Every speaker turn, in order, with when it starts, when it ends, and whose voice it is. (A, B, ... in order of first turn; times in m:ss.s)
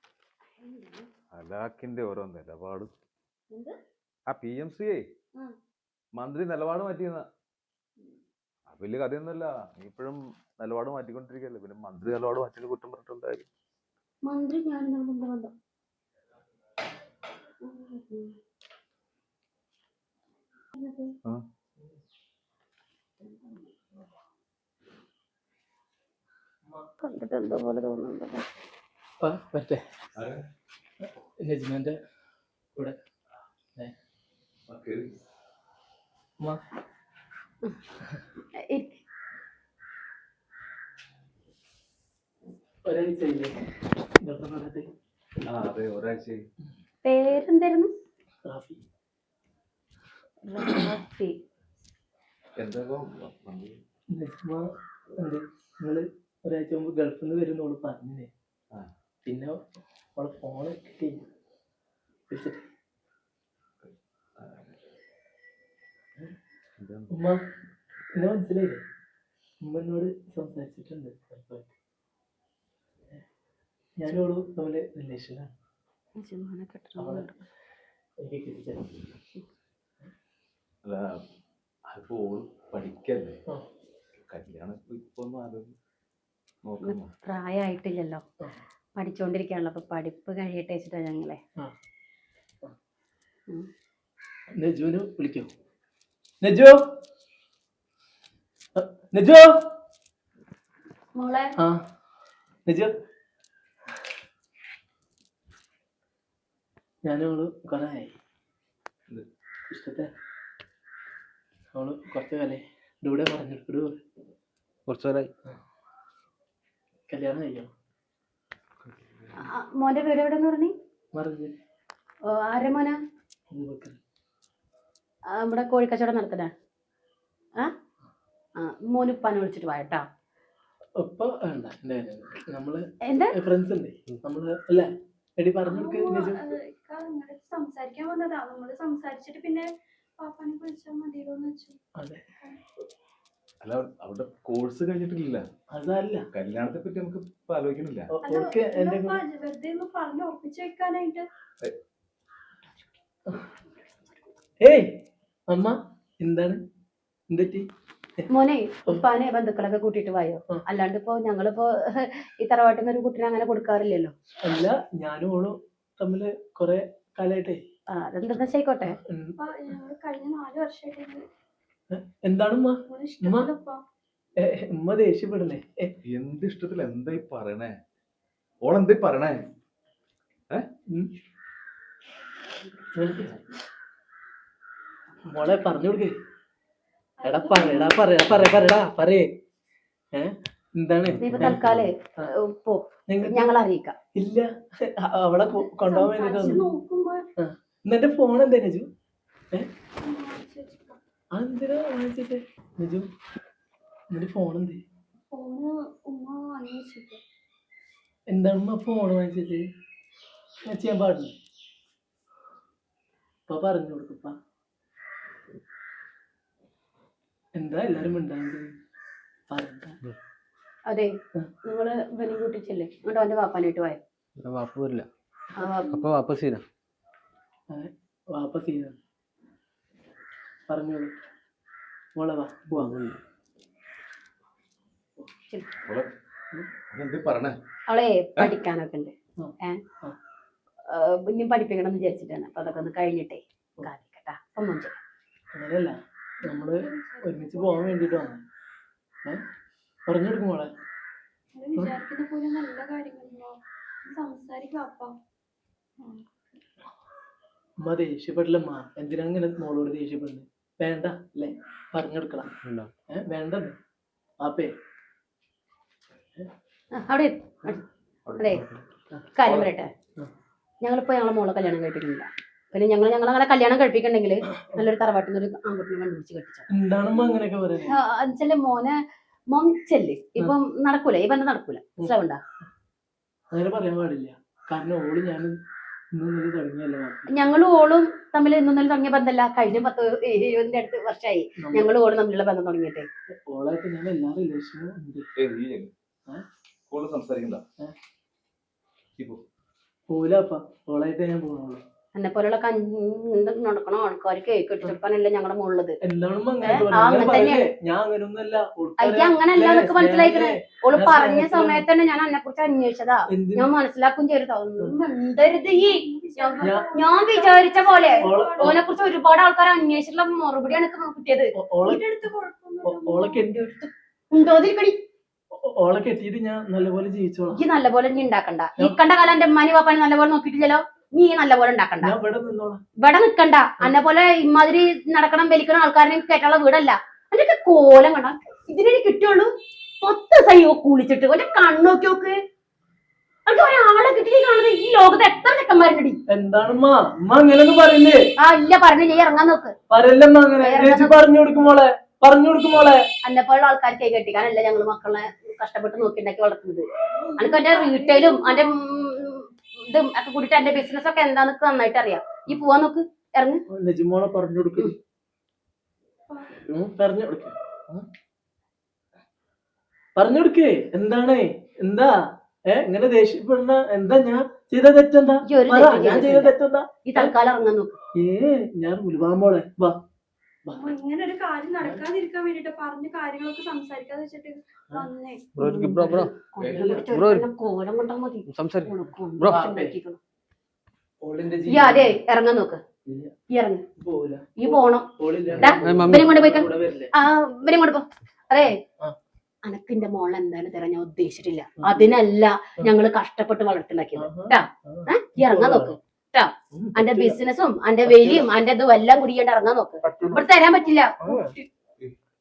0:00.6-0:01.1 A
0:01.3-0:02.9 B
0:04.3-0:05.0 B
0:06.2-0:07.3 B
0:08.7-0:13.5 B
0:14.2-0:15.5 A
0:17.7-0:18.3 A
0:20.8-0:21.1 A
0:27.0-0:28.4 A
0:29.2-0:29.8 C
0:30.2-0:30.4 B
0:31.0-0:32.0 C
0:34.7-0:35.1 B
0:38.6-0:39.0 A
0:42.8-0:43.6 C
0:44.2-0:44.9 C
0:45.4-0:46.5 B
0:47.0-0:47.9 A
0:48.4-0:48.8 C
0:50.4-0:51.4 A
0:52.6-0:53.8 B
0:54.1-0:54.7 C
0:55.2-0:58.3 C
0:59.2-0:59.6 C
1:00.2-1:01.2 C
1:02.3-1:02.6 C
1:03.8-1:04.8 B
1:06.8-1:07.1 B
1:07.1-1:07.4 C
1:08.2-1:08.8 C
1:09.6-1:11.7 C
1:14.0-1:15.5 C
1:16.2-1:17.4 A
1:17.0-1:17.3 C
1:18.2-1:19.0 C
1:21.9-1:23.4 B
1:24.2-1:25.8 B
1:26.6-1:27.1 B
1:26.8-1:28.2 A
1:29.0-1:31.4 A
1:34.6-1:35.5 C
1:36.4-1:36.8 C
1:38.8-1:39.5 C
1:41.2-1:41.5 A
1:42.7-1:42.9 C
1:47.1-1:48.1 C
1:49.7-1:50.1 C
1:51.8-1:54.0 C
1:54.9-1:55.3 D
1:57.1-1:57.7 C
1:59.4-2:00.7 A
2:01.1-2:01.5 C
2:02.3-2:03.0 A
2:03.5-2:04.0 C
2:05.3-2:06.5 A
2:08.6-2:10.0 A
2:11.0-2:16.5 C
2:13.0-2:13.4 A
2:15.7-2:21.8 E
2:22.0-2:22.2 C
2:23.6-2:25.4 B
2:25.7-2:26.3 C
2:26.3-2:28.1 B
2:28.1-2:29.2 C
2:28.2-2:31.3 E
2:34.6-2:34.9 C
2:35.5-2:36.6 C
2:37.3-2:37.7 C
2:38.3-2:44.1 A
2:44.4-2:47.6 C
2:47.9-2:49.0 A
2:49.1-2:49.4 C
2:49.4-2:51.3 E
2:51.9-2:53.5 C
2:52.9-2:53.8 E
2:54.4-2:55.9 C
2:56.1-2:57.8 B
2:58.6-2:59.4 B
3:03.0-3:03.3 C
3:05.3-3:06.1 C
3:07.2-3:08.1 E
3:07.2-3:09.3 C
3:10.1-3:11.6 C
3:11.2-3:13.9 A
3:11.4-3:11.8 B
3:13.1-3:13.5 C
3:14.2-3:16.6 C
3:15.4-3:17.2 E
3:17.4-3:18.9 C
3:20.0-3:21.0 E
3:21.3-3:23.1 C
3:24.1-3:24.8 C
3:25.3-3:27.2 E
3:28.3-3:29.6 C
3:30.6-3:31.4 C
3:33.5-3:34.4 C
3:37.6-3:38.7 C
3:39.5-3:40.0 C
3:41.6-3:44.0 A
3:44.4-3:45.1 D
3:45.6-3:46.0 A
3:45.9-3:46.6 D
3:47.7-3:49.0 C
3:50.7-3:51.1 C
3:52.2-3:53.0 C
3:52.8-3:53.2 D
3:55.8-3:56.1 B
3:56.9-3:57.6 B
3:57.9-3:59.8 A
3:59.4-4:00.2 C
4:00.9-4:05.0 A
4:05.6-4:08.4 C
4:06.4-4:08.3 E
4:10.1-4:10.7 C
4:11.6-4:15.2 E
4:16.0-4:16.3 E
4:17.8-4:22.5 C
4:22.6-4:22.9 D
4:23.1-4:23.8 C
4:24.4-4:24.7 C
4:27.0-4:27.8 A
4:28.3-4:28.6 B
4:28.4-4:28.6 A
4:29.4-4:29.9 A
4:30.8-4:36.7 A
4:34.5-4:34.9 C
4:36.7-4:38.0 C
4:37.2-4:39.0 A
4:39.5-4:42.4 A
4:43.5-4:45.6 C
4:46.1-4:47.3 C
4:47.3-4:53.1 A
4:51.6-4:51.9 C
4:53.5-4:55.2 C
4:55.4-4:55.9 B
4:56.9-4:57.6 B
5:00.1-5:01.8 C
5:02.2-5:06.0 A
5:06.0-5:11.8 C
5:06.6-5:07.7 A
5:09.0-5:21.5 A
5:13.3-5:13.7 C
5:15.6-5:18.8 E
5:16.6-5:16.9 C
5:18.2-5:18.8 C
5:21.6-5:22.0 C
5:21.8-5:23.4 E
5:22.8-5:23.7 C
5:23.7-5:25.0 A
5:25.5-5:27.6 C
5:27.5-5:32.1 A
5:32.0-5:32.8 C
5:33.0-5:39.5 A
5:40.0-5:42.4 A
5:43.5-5:46.2 A
5:46.3-5:48.2 C
5:48.4-5:49.7 A
5:49.9-5:53.0 C
5:50.6-5:51.2 A
5:53.2-5:56.8 A
5:57.2-5:58.7 E
5:57.4-6:03.6 A
6:03.7-6:04.9 C
6:06.3-6:06.6 E
6:06.6-6:08.0 C
6:10.2-6:12.1 C
6:12.7-6:17.3 C
6:15.5-6:16.5 A
6:17.1-6:18.0 A
6:18.2-6:20.0 C
6:20.7-6:25.5 E
6:25.6-6:26.3 D
6:25.6-6:30.2 A
6:26.6-6:26.9 B
6:26.7-6:27.0 C
6:27.1-6:27.5 D
6:28.5-6:29.6 D
6:29.5-6:30.0 C
6:31.2-6:32.2 C
6:31.7-6:32.8 A
6:33.1-6:33.3 C
6:33.5-6:33.8 A
6:34.0-6:37.1 C
6:34.6-6:38.7 A
6:35.6-6:36.3 D
6:39.6-6:51.7 A
6:41.8-6:42.1 C
6:44.2-6:46.0 C
6:46.7-6:47.4 C
6:48.1-6:48.5 C
6:50.1-6:50.4 C
6:51.2-6:51.5 C